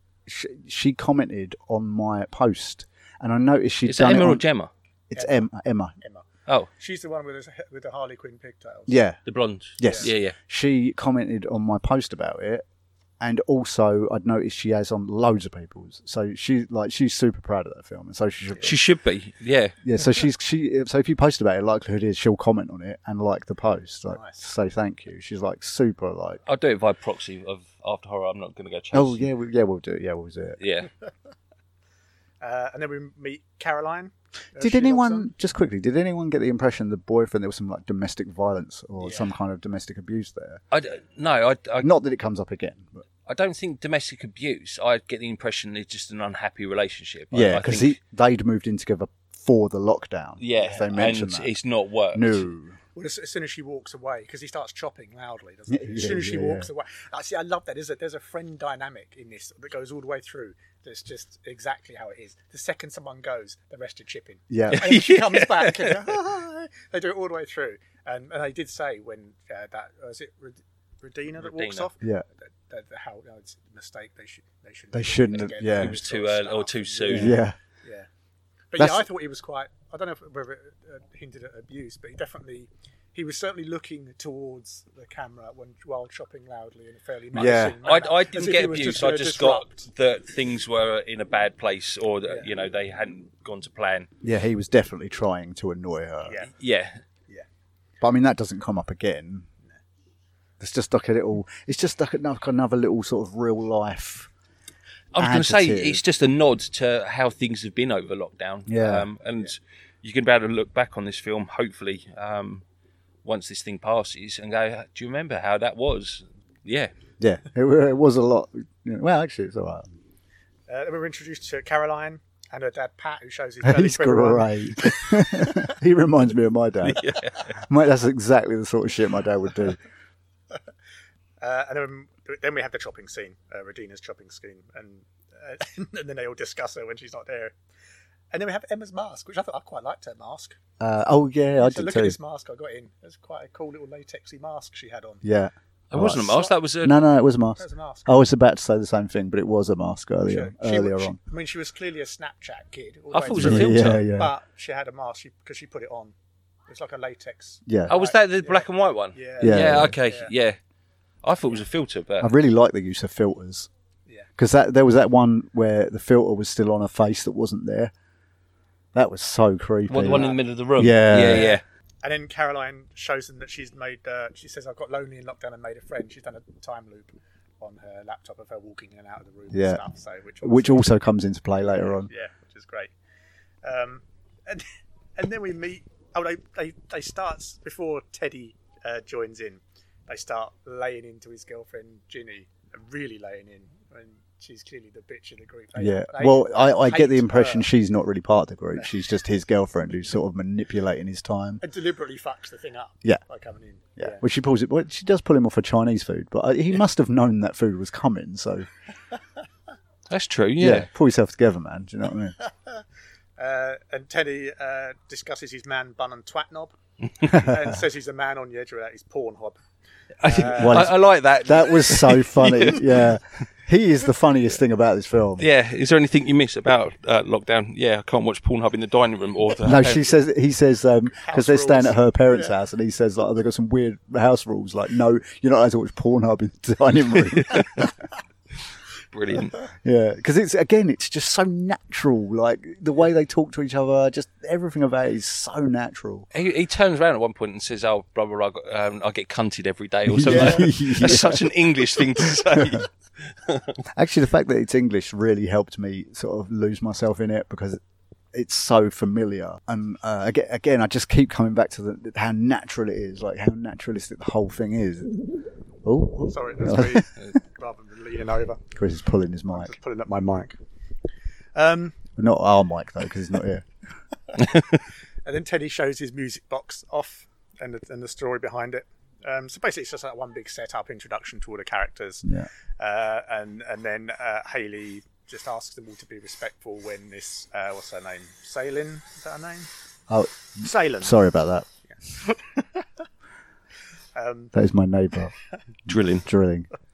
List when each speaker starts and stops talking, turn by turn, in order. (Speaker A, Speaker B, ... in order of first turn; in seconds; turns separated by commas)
Speaker A: 0.2-4.4, Speaker B: 3.9-4.7, Speaker A: 5.1-6.0, Speaker C: 5.2-5.5, Speaker C: 6.0-6.2, Speaker C: 6.8-9.0, Speaker A: 8.9-9.2, Speaker B: 9.2-10.3, Speaker A: 9.8-12.6, Speaker C: 9.8-10.1, Speaker A: 13.2-18.8, Speaker B: 18.6-19.8, Speaker A: 19.8-26.4, Speaker C: 24.1-24.4, Speaker B: 26.4-29.3, Speaker A: 28.9-30.6, Speaker B: 30.6-30.9, Speaker C: 32.4-35.3, Speaker A: 34.6-40.6, Speaker C: 39.0-39.3, Speaker B: 40.7-41.9, Speaker A: 41.8-42.9, Speaker B: 43.2-47.9, Speaker A: 47.3-51.5, Speaker B: 50.4-52.5, Speaker A: 52.1-52.8, Speaker C: 52.9-78.1, Speaker A: 55.7-56.7, Speaker A: 64.5-64.9, Speaker B: 64.7-66.1, Speaker B: 71.4-71.9, Speaker A: 74.9-76.0, Speaker B: 75.8-77.4, Speaker A: 77.1-77.6, Speaker C: 78.7-89.9, Speaker A: 78.8-79.0, Speaker A: 87.3-87.8, Speaker B: 87.4-94.1, Speaker A: 94.2-96.4, Speaker C: 96.2-96.5, Speaker B: 96.5-97.0, Speaker A: 98.0-99.5, Speaker A: 100.6-104.3, Speaker B: 105.1-112.6, Speaker A: 105.2-106.0, Speaker A: 108.7-109.1, Speaker B: 113.2-116.9, Speaker A: 117.2-119.9, Speaker C: 120.7-125.7, Speaker A: 123.6-129.8, Speaker B: 126.8-127.5, Speaker C: 131.4-137.5, Speaker C: 138.3-140.6, Speaker A: 140.8-142.2, Speaker C: 141.6-145.2, Speaker A: 145.2-151.2, Speaker B: 145.9-147.0, Speaker C: 147.6-148.2, Speaker C: 150.2-156.1, Speaker B: 153.1-154.0, Speaker A: 153.3-154.3, Speaker C: 156.7-160.3, Speaker A: 157.7-157.9, Speaker B: 157.9-160.6, Speaker A: 159.4-159.9, Speaker B: 161.2-162.3, Speaker A: 162.2-163.7, Speaker A: 164.4-167.9, Speaker A: 168.9-171.5, Speaker B: 169.9-171.6, Speaker C: 170.1-170.4, Speaker C: 171.1-180.9, Speaker A: 179.5-179.8, Speaker A: 180.4-182.1, Speaker C: 181.6-182.9, Speaker C: 183.6-197.7, Speaker A: 195.8-201.6, Speaker C: 201.6-204.2, Speaker A: 204.0-208.7, Speaker B: 210.1-210.9, Speaker A: 210.6-212.4, Speaker C: 212.5-212.8, Speaker C: 213.4-219.6, Speaker A: 217.2-217.8, Speaker B: 220.2-223.1, Speaker C: 220.2-220.9, Speaker A: 220.4-225.5, Speaker B: 225.4-230.1, Speaker A: 229.6-237.9, Speaker C: 231.2-232.5, Speaker B: 237.4-237.9, Speaker B: 239.1-239.6, Speaker A: 239.8-246.3, Speaker B: 246.3-253.7, Speaker A: 250.1-251.5, Speaker C: 250.3-250.7, Speaker A: 252.2-252.8, Speaker A: 253.9-257.8, Speaker A: 258.3-265.2, Speaker A: 265.8-267.1, Speaker C: 266.3-268.6, Speaker A: 268.7-269.7, Speaker C: 269.5-270.6, Speaker C: 271.6-272.0, Speaker A: 272.2-273.6, Speaker C: 275.2-289.7, Speaker A: 290.1-291.6, Speaker C: 290.6-291.2, Speaker C: 292.1-292.6, Speaker C: 294.1-294.5, Speaker A: 294.5-295.3, Speaker B: 295.9-296.3, Speaker A: 295.9-296.7